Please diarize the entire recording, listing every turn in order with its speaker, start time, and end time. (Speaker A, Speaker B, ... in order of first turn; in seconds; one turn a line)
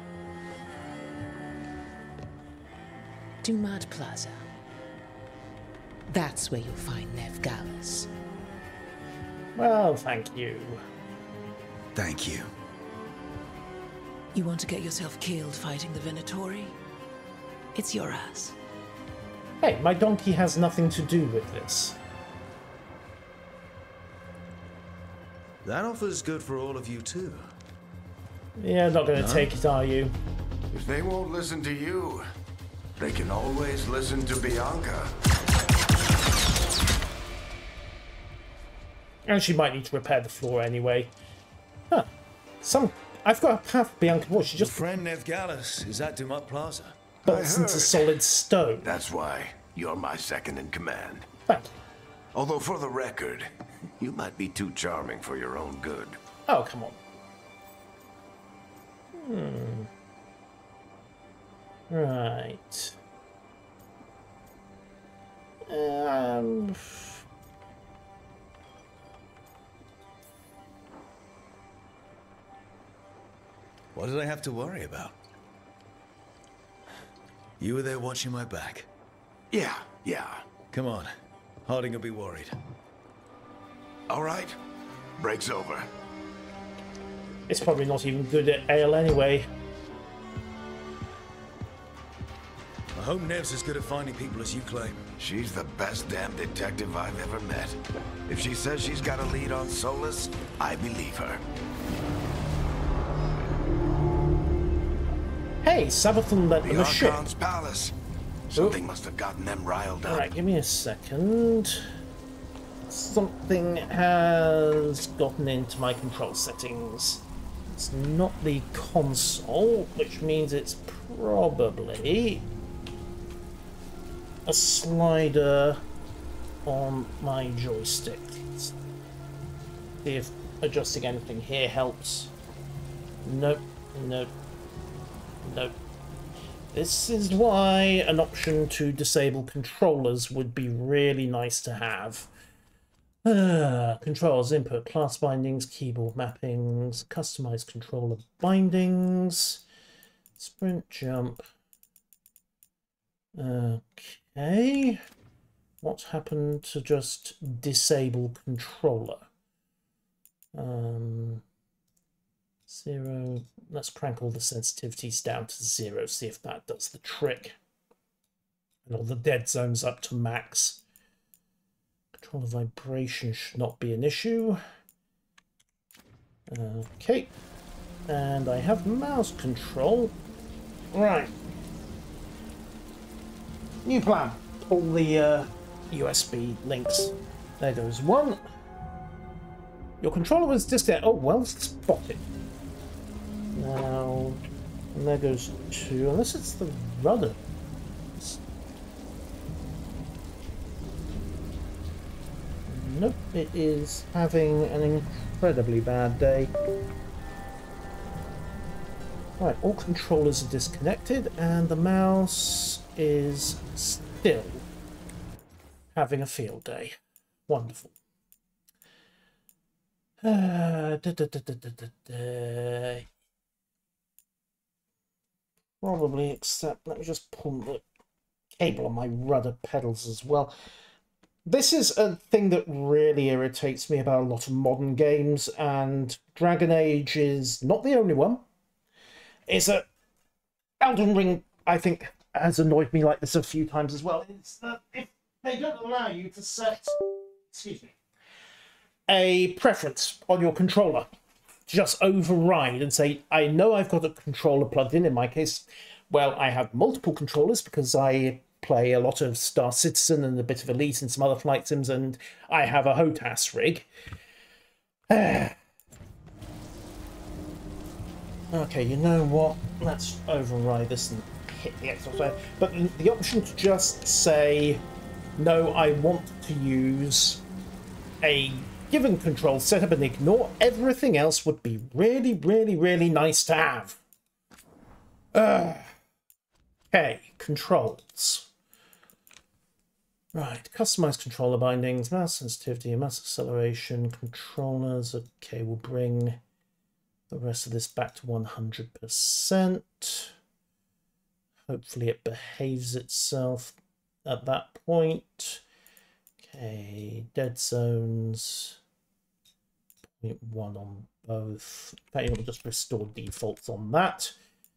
Speaker A: 3.4-4.4
Speaker A: 6.1-8.1
Speaker B: 9.6-10.8
Speaker C: 11.9-12.5
Speaker A: 14.3-16.8
Speaker A: 17.7-18.5
Speaker B: 19.6-22.0
Speaker C: 25.6-27.5
Speaker B: 28.6-30.1
Speaker C: 29.1-29.5
Speaker D: 30.7-32.3
Speaker D: 33.0-35.1
Speaker B: 39.2-41.1
Speaker B: 42.6-44.8
Speaker C: 44.6-47.0
Speaker B: 47.2-48.9
Speaker D: 47.2-48.1
Speaker D: 48.8-51.3
Speaker B: 51.5-51.8
Speaker D: 52.3-56.2
Speaker B: 56.5-57.0
Speaker B: 59.1-59.9
Speaker B: 61.9-63.0
Speaker B: 65.7-67.2
Speaker C: 73.9-75.1
Speaker C: 77.6-78.9
Speaker D: 79.5-80.4
Speaker C: 80.7-81.1
Speaker C: 81.7-82.6
Speaker D: 84.1-84.5
Speaker D: 85.2-85.9
Speaker B: 87.5-89.5
Speaker C: 92.9-95.0
Speaker D: 95.2-101.4
Speaker B: 105.6-107.2
Speaker D: 106.6-107.9
Speaker D: 108.5-110.3
Speaker B: 110.1-111.9
Speaker B: 112.9-122.4
Speaker B: 124.5-125.8
Speaker B: 126.6-128.7
Speaker B: 130.0-132.3
Speaker B: 133.2-134.3
Speaker B: 135.4-135.7
Speaker B: 136.7-142.3
Speaker B: 143.2-149.6
Speaker B: 150.4-151.4
Speaker B: 153.3-155.0
Speaker B: 155.8-159.3
Speaker B: 160.5-161.4
Speaker B: 162.7-167.6
Speaker B: 168.8-170.8
Speaker B: 172.2-174.6
Speaker B: 176.5-177.3
Speaker B: 178.1-180.1
Speaker B: 180.9-181.3
Speaker B: 183.8-188.4
Speaker B: 190.0-192.2
Speaker B: 193.5-194.4
Speaker B: 194.9-197.4
Speaker B: 202.7-206.5
Speaker B: 209.4-214.6
Speaker B: 215.9-216.9
Speaker B: 217.5-217.9
Speaker B: 220.2-223.1
Speaker B: 225.8-227.8
Speaker B: 228.6-230.5
Speaker B: 231.4-238.4
Speaker B: 239.5-239.8
Speaker B: 240.8-247.0
Speaker B: 247.5-247.9
Speaker B: 249.1-251.1
Speaker B: 251.7-263.9
Speaker B: 265.1-265.6
Speaker B: 268.5-274.8
Speaker B: 275.4-277.4
Speaker B: 278.2-284.0
Speaker B: 285.3-285.9
Speaker B: 286.9-288.5
Speaker B: 290.3-296.4
Speaker B: 297.3-300.3
Speaker B: 301.7-305.6
Speaker B: 306.4-308.8
Speaker B: 310.1-314.3